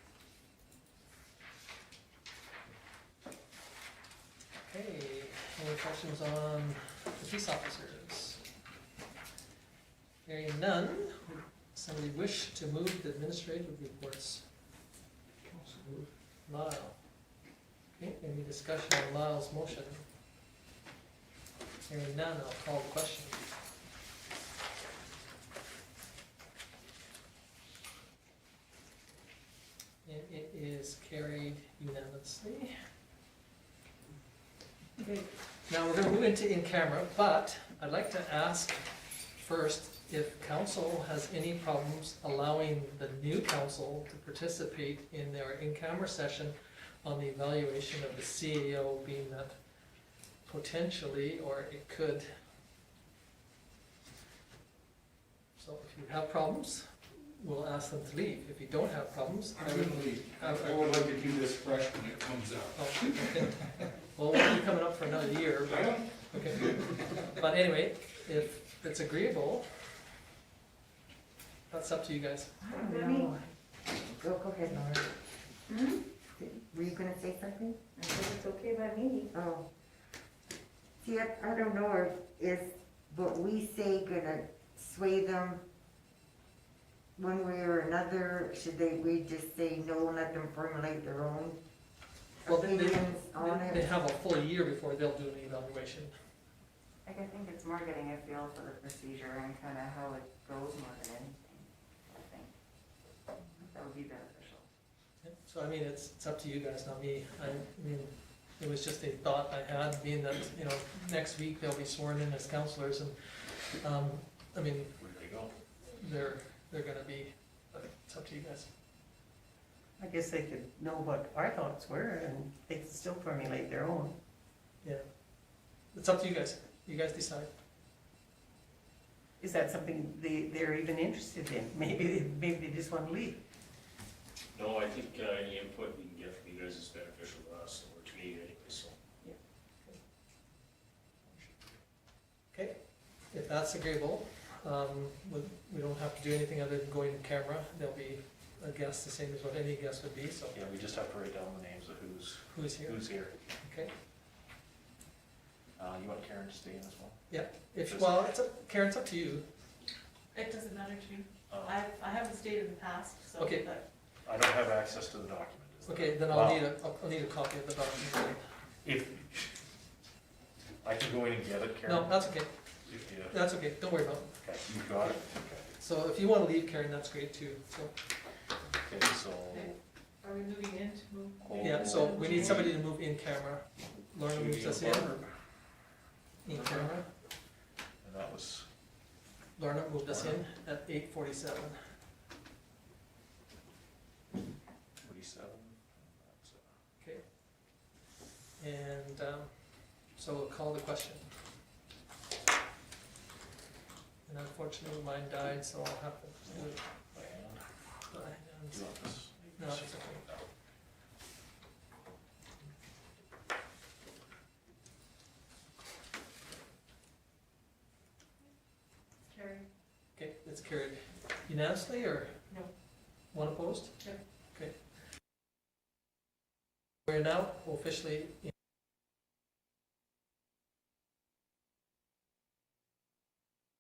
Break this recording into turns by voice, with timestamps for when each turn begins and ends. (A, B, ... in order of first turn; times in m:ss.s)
0:04.6-0:08.4 A
0:10.2-0:14.5 A
0:15.5-0:16.1 B
0:16.5-0:17.4 A
0:17.9-0:20.0 A
0:21.9-0:23.4 A
0:30.0-0:32.7 A
0:35.7-0:49.6 A
0:50.4-0:52.3 A
0:55.6-1:01.2 A
0:59.6-1:00.0 C
0:59.7-1:03.7 B
1:02.7-1:10.0 A
1:05.9-1:06.8 B
1:11.7-1:12.6 A
1:12.6-1:13.3 D
1:12.7-1:13.4 E
1:14.0-1:15.2 E
1:15.7-1:16.0 D
1:16.4-1:17.8 E
1:18.0-1:19.3 D
1:19.3-1:19.7 E
1:21.0-1:25.6 E
1:27.2-1:31.6 E
1:32.4-1:33.9 E
1:32.5-1:36.1 A
1:37.1-1:41.7 D
1:42.2-1:42.5 D
1:43.6-1:44.6 D
1:45.2-1:55.0 A
1:55.0-1:55.5 F
1:55.8-1:58.7 A
2:00.0-2:04.2 G
2:05.9-2:07.5 A
2:09.4-2:13.4 G
2:14.5-2:19.0 C
2:21.3-2:21.6 F
2:23.3-2:30.6 A
2:30.5-2:33.4 F
2:32.5-2:33.9 A
2:35.8-2:37.3 F
2:37.3-2:39.5 A
2:37.8-2:38.2 F
2:40.3-2:43.8 H
2:41.5-2:41.9 F
2:43.4-2:43.7 A
2:44.2-2:46.6 F
2:45.9-2:48.4 A
2:48.8-2:49.4 F
2:50.8-2:52.2 F
2:51.9-2:52.5 A
2:52.9-2:53.4 F
2:53.3-2:54.4 A
2:54.4-2:55.7 F
2:55.8-2:58.0 A
2:58.8-2:59.8 F
2:59.5-3:02.6 H
3:01.4-3:02.7 F
3:01.6-3:05.2 A
3:04.2-3:05.3 F
3:06.4-3:07.1 A
3:06.5-3:06.9 F
3:08.0-3:08.7 F
3:09.6-3:11.8 A
3:10.1-3:10.4 F
3:15.0-3:16.6 F
3:18.6-3:21.3 A
3:24.3-3:26.8 A
3:26.5-3:30.5 F
3:28.1-3:30.3 A
3:39.3-3:39.7 H
3:40.2-3:44.8 A
3:47.0-3:48.5 A